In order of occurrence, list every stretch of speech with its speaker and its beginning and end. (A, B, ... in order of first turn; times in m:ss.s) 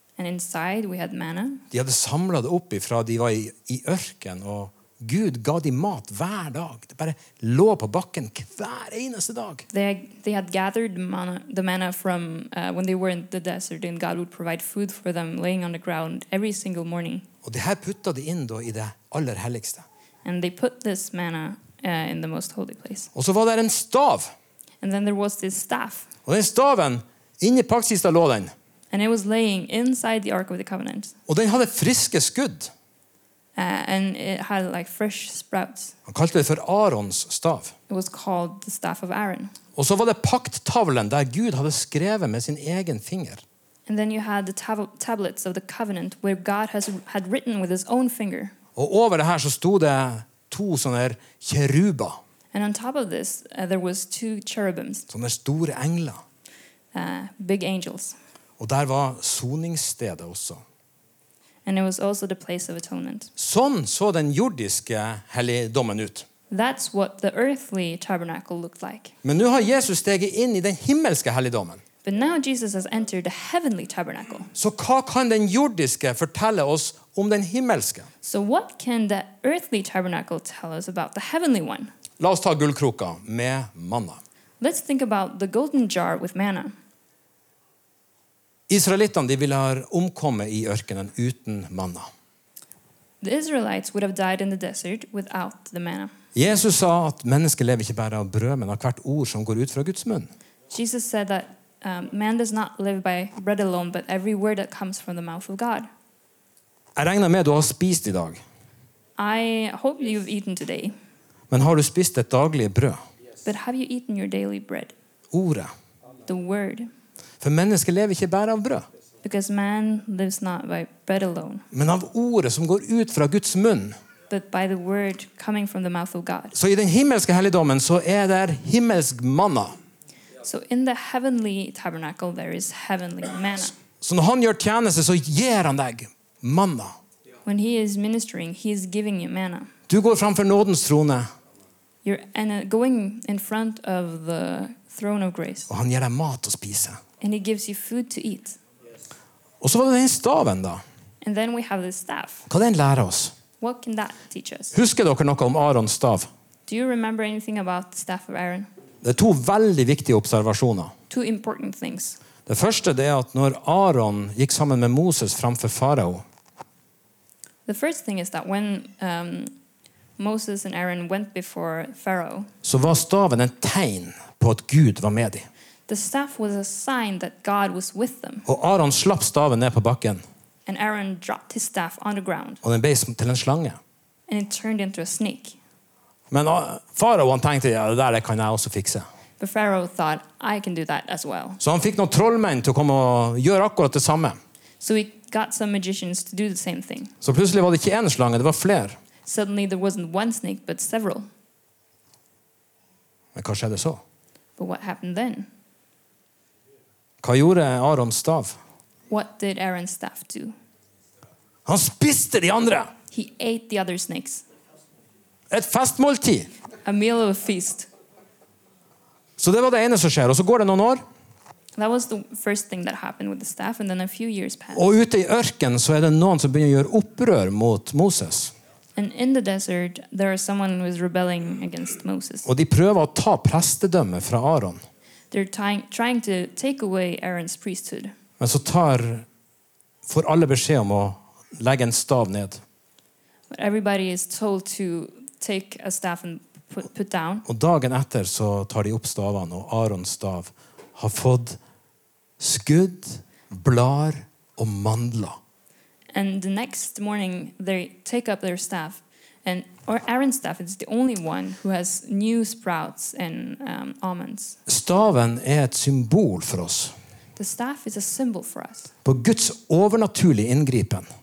0:00.2-0:01.6 A
0:01.7-0:09.7 B
0:09.7-0:17.2 A
0:17.4-0:19.8 B
0:20.2-0:23.1 A
0:23.1-0:24.3 B
0:24.8-0:26.1 A
0:26.2-0:28.5 B
0:28.9-0:31.1 A
0:31.3-0:32.7 B
0:33.6-0:35.9 A
0:36.1-0:37.7 B
0:37.9-0:39.5 A
0:39.8-0:43.4 B
0:43.9-0:48.5 A
0:48.8-0:52.2 B
0:52.5-0:55.1 A
0:55.1-0:56.2 B
0:56.9-0:58.2 A
0:58.6-1:00.6 B
1:01.6-1:03.3 A
1:03.4-1:06.2 B
1:06.5-1:09.2 A
1:09.2-1:11.8 B
1:12.0-1:14.5 A
1:14.5-1:18.1 B
1:18.2-1:21.9 A
1:22.2-1:24.2 B
1:24.6-1:26.7 A
1:28.7-1:32.1 B
1:33.2-1:36.1 A
1:36.3-1:40.3 B
1:40.7-1:45.9 A
1:47.0-1:48.4 B
1:49.2-1:50.9 A
1:51.5-1:53.0 B
1:53.4-1:54.9 A
1:55.3-1:55.7 B
1:56.2-1:56.9 A
1:57.4-1:58.8 B
1:59.2-2:01.6 A
2:01.7-2:04.0 B
2:04.3-2:06.6 A
2:06.5-2:09.8 B
2:10.4-2:13.8 A
2:14.0-2:17.0 B
2:17.4-2:19.7 A
2:19.9-2:21.3 B
2:22.0-2:25.7 A
2:25.7-2:27.0 B
2:27.2-2:28.6 A
2:29.6-2:30.8 B
2:31.2-2:32.5 A
2:32.5-2:33.3 B
2:33.6-2:34.7 A
2:34.7-2:36.3 B
2:36.7-2:38.7 A
2:39.0-2:40.9 B
2:41.1-2:42.2 A
2:42.4-2:46.2 B
2:47.6-2:49.5 A
2:50.2-2:52.5 A
2:52.6-2:55.4 B
2:55.9-2:58.4 A
2:58.4-3:00.2 B
3:00.6-3:02.6 A
3:02.6-3:03.8 B
3:04.3-3:05.6 A
3:06.3-3:09.0 B
3:09.4-3:11.6 A
3:11.6-3:14.4 B
3:14.8-3:17.1 A
3:17.2-3:19.0 B
3:19.2-3:21.3 A
3:23.3-3:24.0 B
3:24.6-3:25.5 A
3:27.2-3:28.6 B
3:29.1-3:30.5 A
3:31.6-3:32.9 B
3:33.1-3:34.4 A
3:35.5-3:36.5 B
3:36.8-3:37.9 A
3:39.4-3:41.0 B
3:41.8-3:44.8 A
3:44.7-3:48.5 B
3:49.0-3:52.5 A
3:52.4-3:54.8 B
3:55.3-3:58.1 A
3:58.4-3:59.2 B
4:00.0-4:02.6 B
4:03.5-4:07.4 A
4:07.4-4:11.6 B
4:12.4-4:15.4 B
4:16.1-4:24.6 A
4:24.7-4:26.9 B
4:27.4-4:28.9 A
4:29.0-4:31.0 B